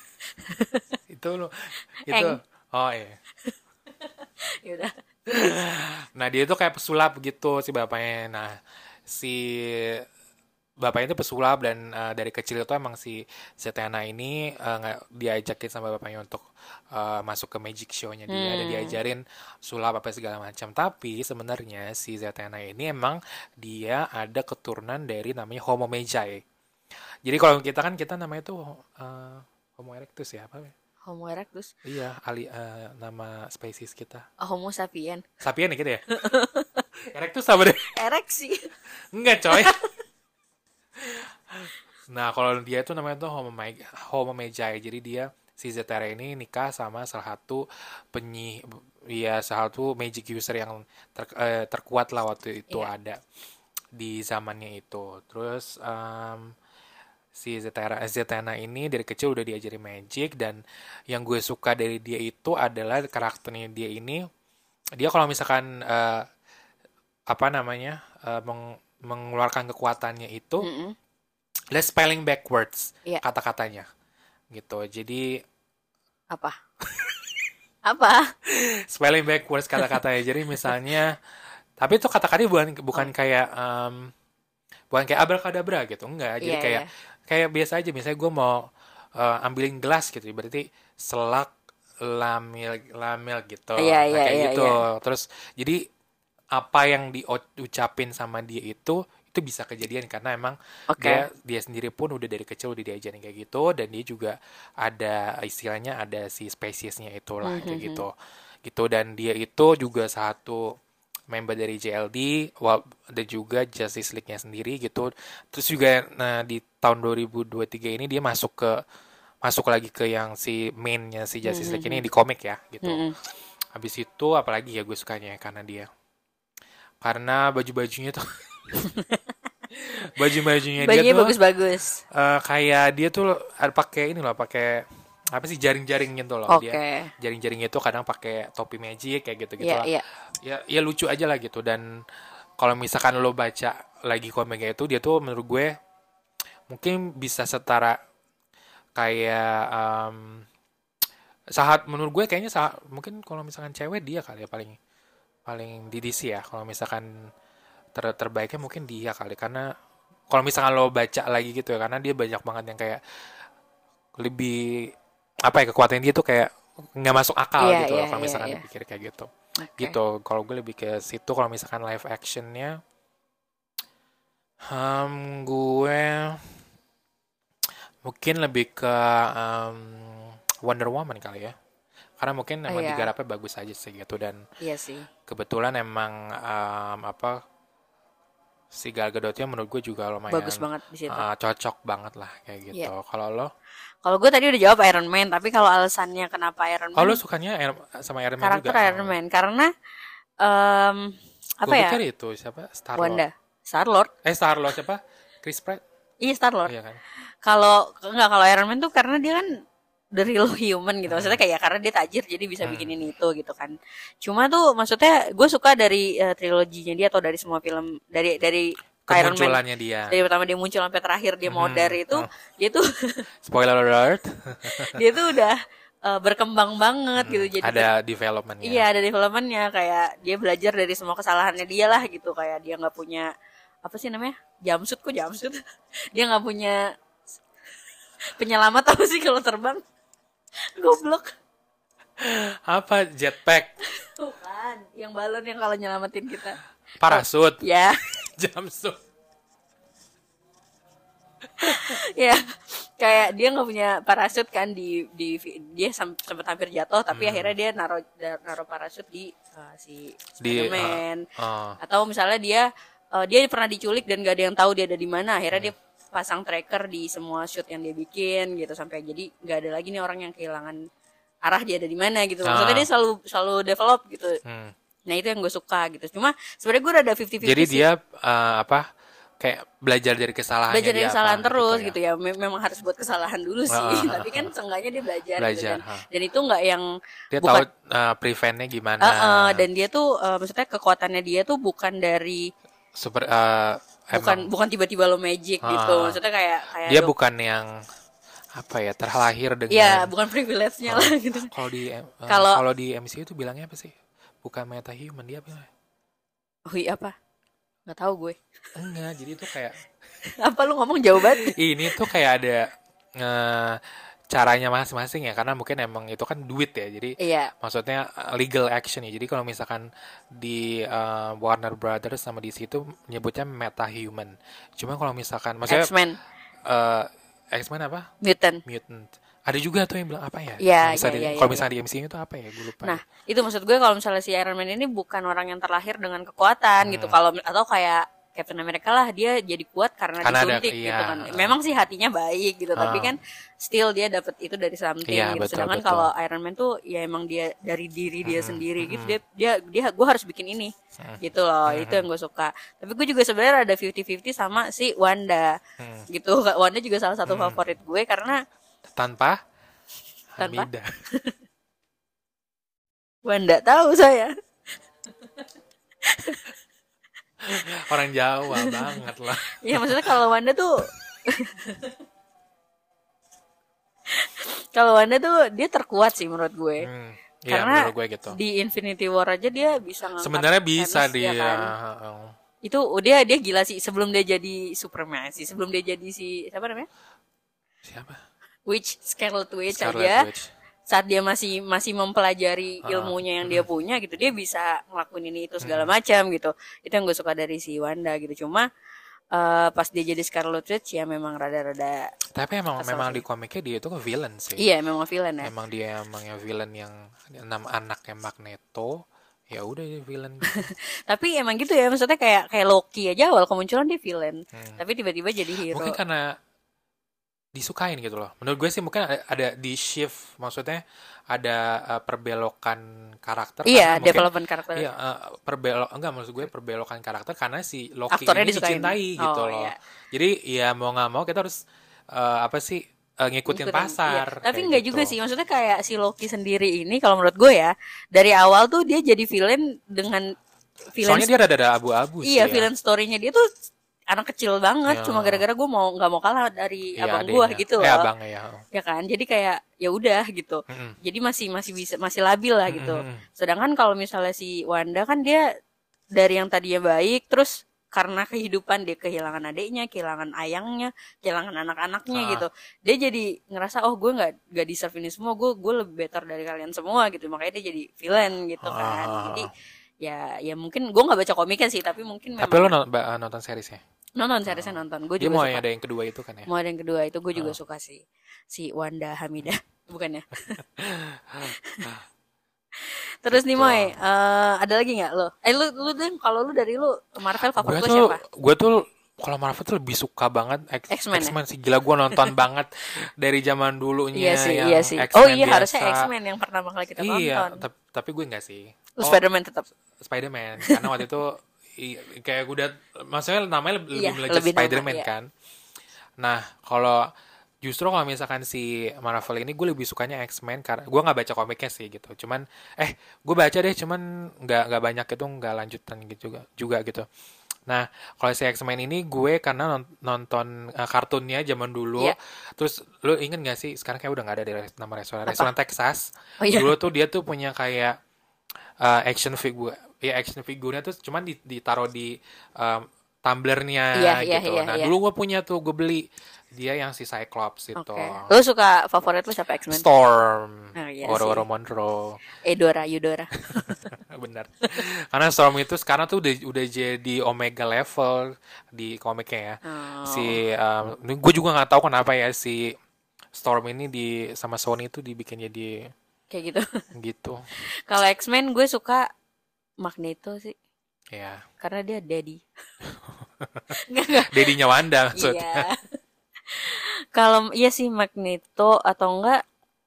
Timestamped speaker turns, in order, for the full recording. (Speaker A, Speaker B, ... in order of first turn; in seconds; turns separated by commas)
Speaker A: 0.4-1.0, Speaker B: 1.1-3.2, Speaker A: 2.1-2.4, Speaker A: 4.6-4.9, Speaker B: 5.3-10.0, Speaker B: 10.8-26.4, Speaker A: 18.3-19.0, Speaker B: 27.2-30.7, Speaker A: 31.1-31.7, Speaker B: 31.8-34.2, Speaker A: 34.4-35.2, Speaker B: 35.4-36.0, Speaker A: 36.1-36.8, Speaker B: 37.1-37.9, Speaker A: 37.9-38.7, Speaker B: 39.1-39.8, Speaker A: 39.5-39.9, Speaker B: 41.0-53.2, Speaker B: 54.0-56.5, Speaker B: 57.3-64.2, Speaker B: 65.0-66.2, Speaker B: 67.3-70.7, Speaker A: 70.6-70.9, Speaker B: 71.7-73.8, Speaker B: 74.5-75.3, Speaker A: 77.8-78.3, Speaker B: 78.5-81.1, Speaker B: 81.8-84.1, Speaker B: 84.9-88.6, Speaker A: 86.4-86.9, Speaker B: 89.2-95.8, Speaker A: 93.8-94.7, Speaker B: 96.5-108.1, Speaker A: 100.9-101.2, Speaker A: 107.4-108.0, Speaker B: 108.6-110.7, Speaker B: 111.3-118.7, Speaker B: 119.4-123.0, Speaker A: 121.4-122.0, Speaker A: 122.8-123.1, Speaker B: 123.7-125.9, Speaker B: 127.0-128.5, Speaker A: 128.8-129.2, Speaker B: 129.7-131.3, Speaker A: 130.8-132.0, Speaker B: 132.1-141.8, Speaker A: 136.5-137.1, Speaker A: 139.6-140.0, Speaker B: 142.6-145.7, Speaker B: 146.7-147.9, Speaker B: 149.0-150.4, Speaker B: 151.5-154.8, Speaker B: 155.4-157.1, Speaker B: 157.9-159.7, Speaker B: 160.3-163.0, Speaker B: 164.2-164.9, Speaker B: 165.4-172.8, Speaker A: 167.6-168.6, Speaker A: 169.6-170.0, Speaker B: 174.7-176.5, Speaker B: 178.0-181.5, Speaker B: 182.2-184.4, Speaker A: 182.7-183.1, Speaker A: 184.6-185.1, Speaker B: 185.3-187.4, Speaker B: 188.7-193.5, Speaker A: 190.3-191.2, Speaker A: 194.0-197.2, Speaker B: 197.0-199.1, Speaker A: 198.4-199.7, Speaker A: 200.4-202.0, Speaker B: 201.6-203.2, Speaker A: 202.9-204.1, Speaker B: 204.2-205.8, Speaker A: 206.2-206.7, Speaker B: 206.7-207.0, Speaker A: 207.4-209.6, Speaker A: 210.1-219.6, Speaker B: 211.1-211.4, Speaker B: 212.6-212.9, Speaker B: 219.1-220.1, Speaker A: 220.1-223.2, Speaker B: 221.5-222.2, Speaker B: 223.4-225.0, Speaker A: 224.8-227.9, Speaker B: 227.2-228.8, Speaker A: 228.6-233.3, Speaker A: 233.8-235.6, Speaker A: 236.1-236.8, Speaker A: 238.3-239.8, Speaker A: 240.7-241.3, Speaker B: 242.2-243.7, Speaker A: 243.9-246.6, Speaker B: 247.0-247.6, Speaker A: 247.1-248.0, Speaker B: 248.2-249.0, Speaker A: 251.6-261.2, Speaker B: 251.7-251.9, Speaker B: 257.1-257.5, Speaker B: 260.4-261.8, Speaker A: 261.8-270.8, Speaker A: 271.4-274.4, Speaker B: 272.4-272.9, Speaker B: 274.4-274.7, Speaker A: 275.1-277.8, Speaker B: 277.4-278.9, Speaker B: 279.4-281.9, Speaker A: 280.7-286.8, Speaker B: 283.7-284.5, Speaker B: 285.4-286.1, Speaker B: 287.3-289.6, Speaker A: 289.0-292.5, Speaker B: 292.9-294.5, Speaker A: 294.1-297.1, Speaker B: 295.6-296.2, Speaker B: 296.9-297.7, Speaker B: 298.6-300.1, Speaker A: 299.7-301.5, Speaker B: 300.9-305.7, Speaker A: 302.3-302.6, Speaker A: 306.7-307.1, Speaker A: 307.9-308.4, Speaker B: 308.8-309.8, Speaker A: 310.2-312.1, Speaker B: 311.1-312.6, Speaker B: 313.2-325.9, Speaker A: 317.2-317.5, Speaker A: 325.7-326.2, Speaker B: 326.6-328.1, Speaker A: 328.2-328.6, Speaker B: 328.6-333.0, Speaker A: 330.6-331.7, Speaker A: 332.8-355.6, Speaker B: 336.8-337.2, Speaker B: 340.2-341.6, Speaker B: 342.7-343.1, Speaker B: 345.1-346.1, Speaker B: 348.2-349.2, Speaker B: 351.0-352.1, Speaker B: 355.8-356.1, Speaker A: 356.1-358.4, Speaker B: 357.3-357.6, Speaker B: 358.9-359.4, Speaker B: 360.3-360.9, Speaker A: 360.4-361.3, Speaker A: 363.2-364.3, Speaker A: 366.1-366.4, Speaker B: 367.4-370.1, Speaker A: 368.6-369.0, Speaker A: 369.6-371.9, Speaker A: 374.1-376.9, Speaker B: 376.8-378.4, Speaker A: 377.5-381.7, Speaker B: 380.2-382.3, Speaker A: 382.6-386.9, Speaker B: 387.8-388.2, Speaker A: 388.7-390.2, Speaker B: 389.7-390.5, Speaker A: 390.9-398.6, Speaker B: 392.8-393.7, Speaker B: 395.6-395.9, Speaker A: 399.3-402.1, Speaker B: 402.3-404.6, Speaker A: 402.8-403.2, Speaker A: 404.6-405.5, Speaker B: 405.4-410.7, Speaker A: 410.5-416.0, Speaker B: 414.5-414.8, Speaker B: 415.7-416.3, Speaker B: 417.5-431.5, Speaker A: 423.6-424.9, Speaker A: 428.1-429.8, Speaker B: 432.1-435.1, Speaker A: 433.5-440.2, Speaker A: 440.9-441.3, Speaker B: 441.0-442.7, Speaker A: 442.2-443.4, Speaker A: 444.1-448.1, Speaker B: 444.9-445.4, Speaker B: 447.0-448.6, Speaker A: 448.7-455.4, Speaker B: 450.7-450.9, Speaker B: 452.7-453.2, Speaker A: 456.1-469.5, Speaker B: 462.1-462.5, Speaker B: 468.6-469.5, Speaker A: 470.0-472.7, Speaker B: 472.4-473.8, Speaker A: 474.2-475.6, Speaker B: 474.5-476.5, Speaker A: 476.5-480.6, Speaker B: 480.5-482.0, Speaker A: 481.6-481.9, Speaker A: 482.9-488.2, Speaker B: 483.3-483.9, Speaker B: 487.4-496.1, Speaker A: 490.9-491.3, Speaker A: 494.1-497.6, Speaker B: 497.0-499.2, Speaker A: 499.0-499.6, Speaker B: 500.0-505.3, Speaker A: 500.6-501.0, Speaker A: 503.9-505.1, Speaker B: 506.2-507.1, Speaker B: 507.6-517.0, Speaker B: 517.7-528.0, Speaker A: 526.4-526.7, Speaker B: 528.8-538.3, Speaker A: 533.9-534.9, Speaker A: 537.8-539.8, Speaker B: 539.7-542.2, Speaker A: 540.8-541.4, Speaker A: 542.4-543.9, Speaker B: 543.5-552.7, Speaker A: 549.6-550.3, Speaker B: 553.3-555.8, Speaker A: 556.3-556.6, Speaker B: 556.9-557.4, Speaker A: 557.9-559.1, Speaker A: 559.8-560.5, Speaker B: 561.1-561.4, Speaker A: 561.6-562.4, Speaker B: 562.9-563.8, Speaker A: 563.7-564.5, Speaker B: 564.3-565.6, Speaker A: 565.1-565.8, Speaker A: 566.5-569.4